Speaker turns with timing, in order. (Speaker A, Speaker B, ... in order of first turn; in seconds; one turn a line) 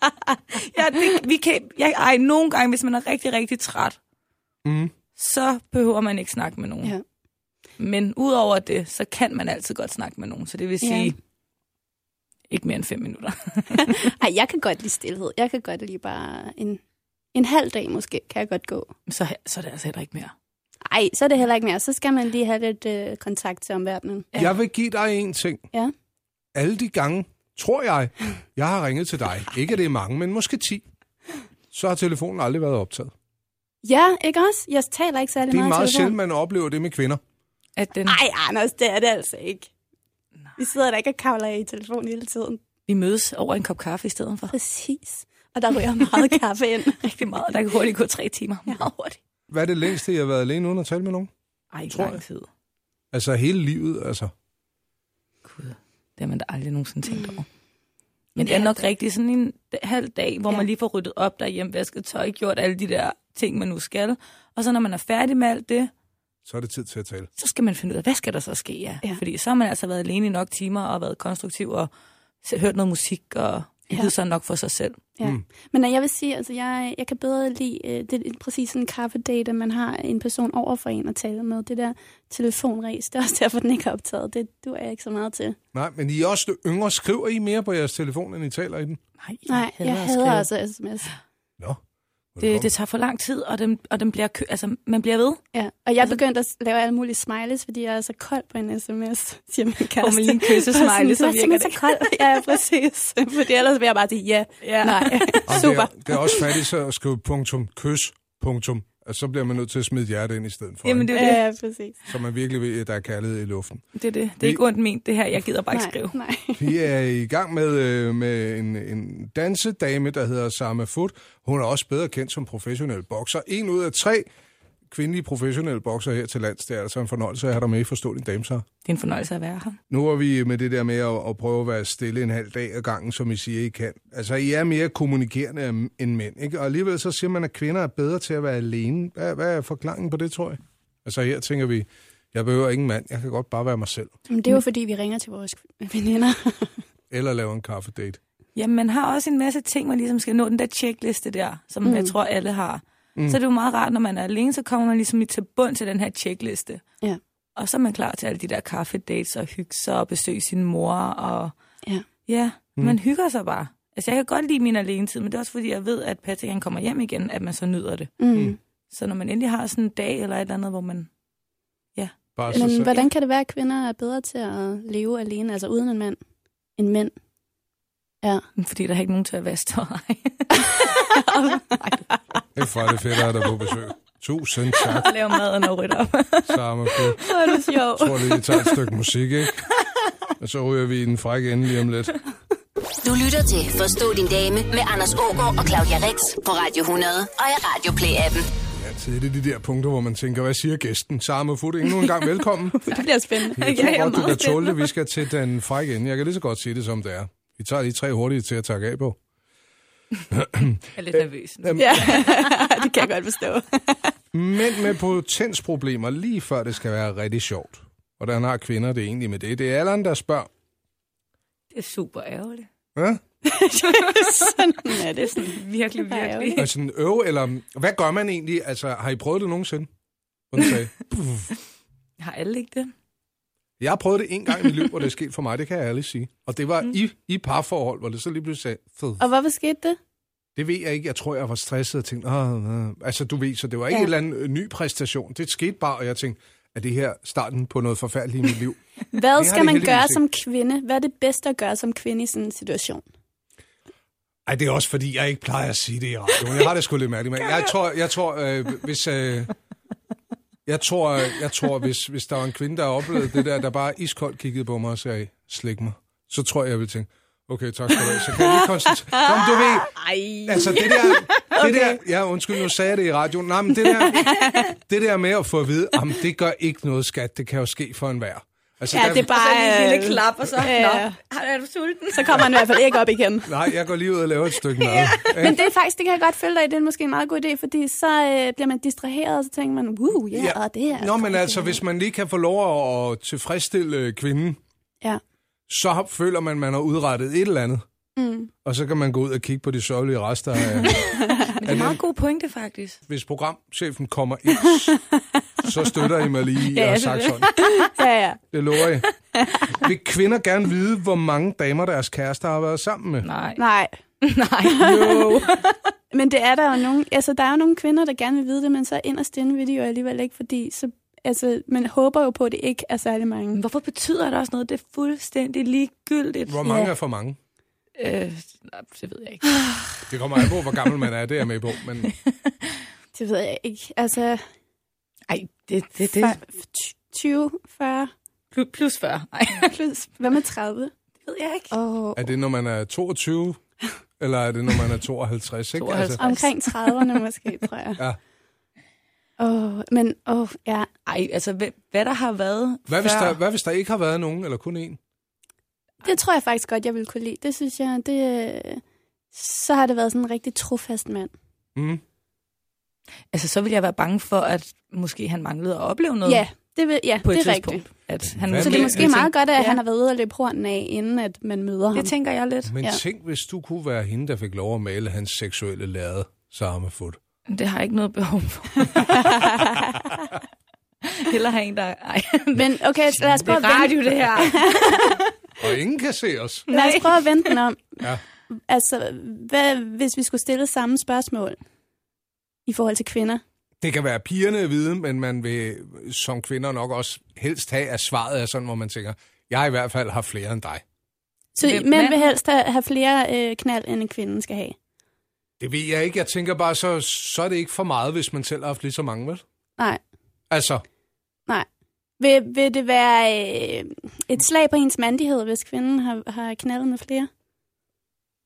Speaker A: 0.5-4.0
Speaker B: 4.6-4.9
Speaker A: 5.2-7.0
Speaker A: 7.8-11.1
Speaker C: 10.8-11.1
Speaker A: 12.5-14.0
Speaker C: 13.7-16.8
Speaker C: 17.3-18.9
Speaker A: 19.1-20.3
Speaker C: 20.8-24.5
Speaker B: 24.3-25.6
Speaker B: 26.5-30.8
Speaker B: 31.7-33.1
Speaker C: 33.8-36.1
Speaker B: 35.5-37.2
Speaker A: 37.8-38.2
Speaker C: 38.1-39.7
Speaker C: 40.6-42.6
Speaker A: 42.9-44.5
Speaker C: 44.5-47.1
Speaker A: 47.0-49.2
Speaker B: 49.5-51.3
Speaker A: 51.7-52.5
Speaker B: 51.9-52.2
Speaker B: 53.1-54.3
Speaker A: 55.4-57.5
Speaker C: 57.1-57.4
Speaker A: 58.4-65.9
Speaker C: 58.4-58.9
Speaker B: 66.4-67.3
Speaker A: 67.4-71.9
Speaker A: 72.4-75.0
Speaker C: 75.2-85.6
Speaker B: 85.7-89.0
Speaker A: 89.2-90.5
Speaker C: 89.5-91.1
Speaker B: 92.3-92.7
Speaker A: 92.4-95.4
Speaker C: 95.5-106.5
Speaker A: 100.0-102.1
Speaker A: 104.6-105.5
Speaker B: 105.5-111.1
Speaker A: 110.8-111.4
Speaker C: 111.1-112.0
Speaker B: 112.1-113.8
Speaker A: 114.0-116.2
Speaker C: 115.7-116.7
Speaker B: 116.6-124.2
Speaker B: 124.9-128.6
Speaker A: 128.8-129.8
Speaker B: 129.9-144.1
Speaker C: 144.3-146.8
Speaker B: 147.1-148.2
Speaker A: 148.5-156.8
Speaker C: 151.8-152.1
Speaker A: 157.6-161.5
Speaker A: 162.2-168.1
Speaker C: 168.2-168.6
Speaker A: 168.9-171.1
Speaker A: 171.9-173.1
Speaker B: 172.3-172.9
Speaker C: 172.5-176.2
Speaker C: 176.8-177.1
Speaker A: 178.6-181.2
Speaker C: 181.0-181.8
Speaker A: 181.8-182.0
Speaker B: 182.5-185.1
Speaker A: 184.8-187.8
Speaker B: 186.5-187.2
Speaker C: 187.2-188.6
Speaker B: 187.9-189.6
Speaker B: 190.4-192.2
Speaker D: 193.0-198.5
Speaker B: 198.7-202.9
Speaker C: 202.8-204.8
Speaker A: 203.5-204.5
Speaker B: 203.6-209.2
Speaker B: 210.3-212.2
Speaker A: 210.9-212.7
Speaker C: 211.8-214.1
Speaker B: 214.3-220.5
Speaker A: 221.7-222.7
Speaker B: 222.9-223.2
Speaker C: 223.4-226.6
Speaker A: 223.9-224.4
Speaker A: 225.2-226.7
Speaker B: 226.6-229.9
Speaker B: 230.5-231.5
Speaker A: 232.2-232.9
Speaker B: 233.8-239.2
Speaker C: 239.2-240.0
Speaker B: 240.6-248.8
Speaker C: 249.1-253.0
Speaker B: 249.3-250.2
Speaker B: 254.4-259.5
Speaker B: 260.6-279.3
Speaker C: 268.4-272.0
Speaker C: 273.8-274.7
Speaker C: 278.9-281.2
Speaker A: 278.9-282.8
Speaker C: 282.1-283.5
Speaker B: 283.4-285.6
Speaker A: 284.8-285.4
Speaker C: 285.1-291.8
Speaker B: 290.3-294.6
Speaker B: 295.7-297.8
Speaker C: 298.1-298.5
Speaker B: 298.6-302.0
Speaker C: 300.9-301.5
Speaker A: 301.5-303.0
Speaker B: 303.1-305.0
Speaker B: 305.6-307.5
Speaker A: 306.7-307.9
Speaker C: 307.6-308.4
Speaker B: 308.5-309.1
Speaker C: 309.4-309.7
Speaker B: 309.7-313.3
Speaker A: 313.2-313.6
Speaker C: 313.6-313.9
Speaker A: 314.2-315.7
Speaker C: 314.6-315.4
Speaker C: 316.1-323.6
Speaker A: 323.5-326.8
Speaker B: 326.5-327.4
Speaker C: 326.6-326.9
Speaker A: 328.0-329.5
Speaker B: 330.1-332.1
Speaker A: 332.1-332.7
Speaker C: 333.1-334.4
Speaker A: 335.3-336.4
Speaker C: 336.1-338.1
Speaker A: 338.5-339.7
Speaker C: 339.5-340.9
Speaker A: 341.2-341.7
Speaker C: 341.7-342.3
Speaker B: 342.1-343.6
Speaker B: 344.2-346.2
Speaker A: 345.7-346.9
Speaker C: 346.2-348.0
Speaker C: 349.4-350.9
Speaker A: 351.1-353.4
Speaker B: 352.9-355.0
Speaker C: 356.0-358.8
Speaker C: 359.3-361.3
Speaker B: 361.8-362.0
Speaker A: 363.3-366.4
Speaker C: 366.2-367.9
Speaker A: 367.2-369.8
Speaker B: 368.3-369.2
Speaker C: 368.6-372.1
Speaker A: 371.9-372.7
Speaker B: 372.6-377.2
Speaker A: 377.5-379.6
Speaker C: 379.2-379.7
Speaker A: 381.0-385.2
Speaker C: 382.6-385.2
Speaker B: 385.6-386.7
Speaker A: 386.7-387.5
Speaker C: 386.7-391.6
Speaker C: 392.6-393.4
Speaker B: 393.8-400.8
Speaker C: 401.5-404.8
Speaker A: 401.6-402.4
Speaker B: 405.6-409.4
Speaker B: 410.5-410.8
Speaker C: 412.2-417.3